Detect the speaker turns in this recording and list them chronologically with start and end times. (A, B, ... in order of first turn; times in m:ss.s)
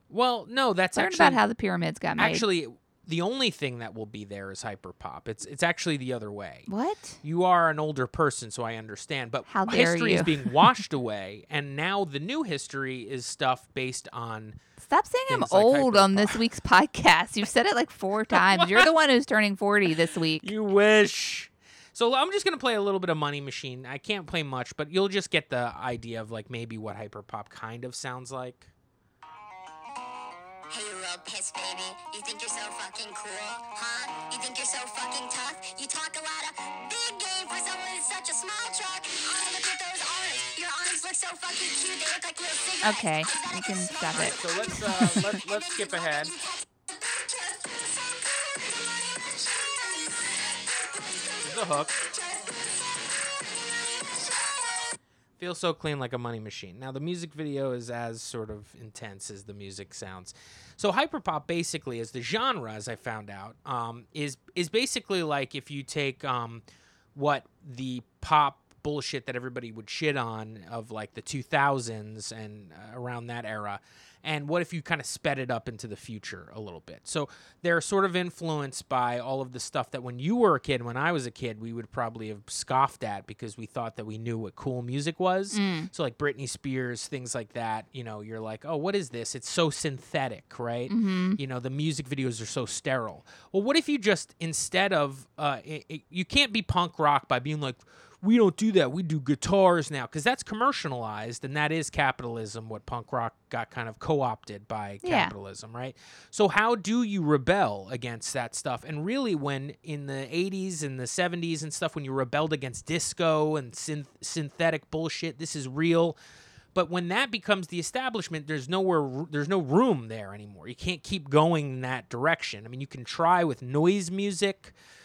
0:00.1-0:01.4 A
0:00.9-0:02.4 B
0:02.2-0:06.7 A
0:06.7-0:07.2 B
0:07.2-0:14.6 A
0:09.5-0:10.7 B
0:14.8-0:20.5 B
0:15.3-0:16.4 A
0:18.3-0:18.9 A
0:20.4-0:28.7 A
0:30.7-0:54.8 C
0:42.8-0:44.4 B
0:44.1-0:46.3 A
0:51.4-0:51.9 A
0:55.4-1:06.6 A
1:07.1-1:56.2 A
1:25.5-1:25.9 B
1:30.9-1:31.4 B
1:45.0-1:45.3 B
1:56.7-2:04.7 A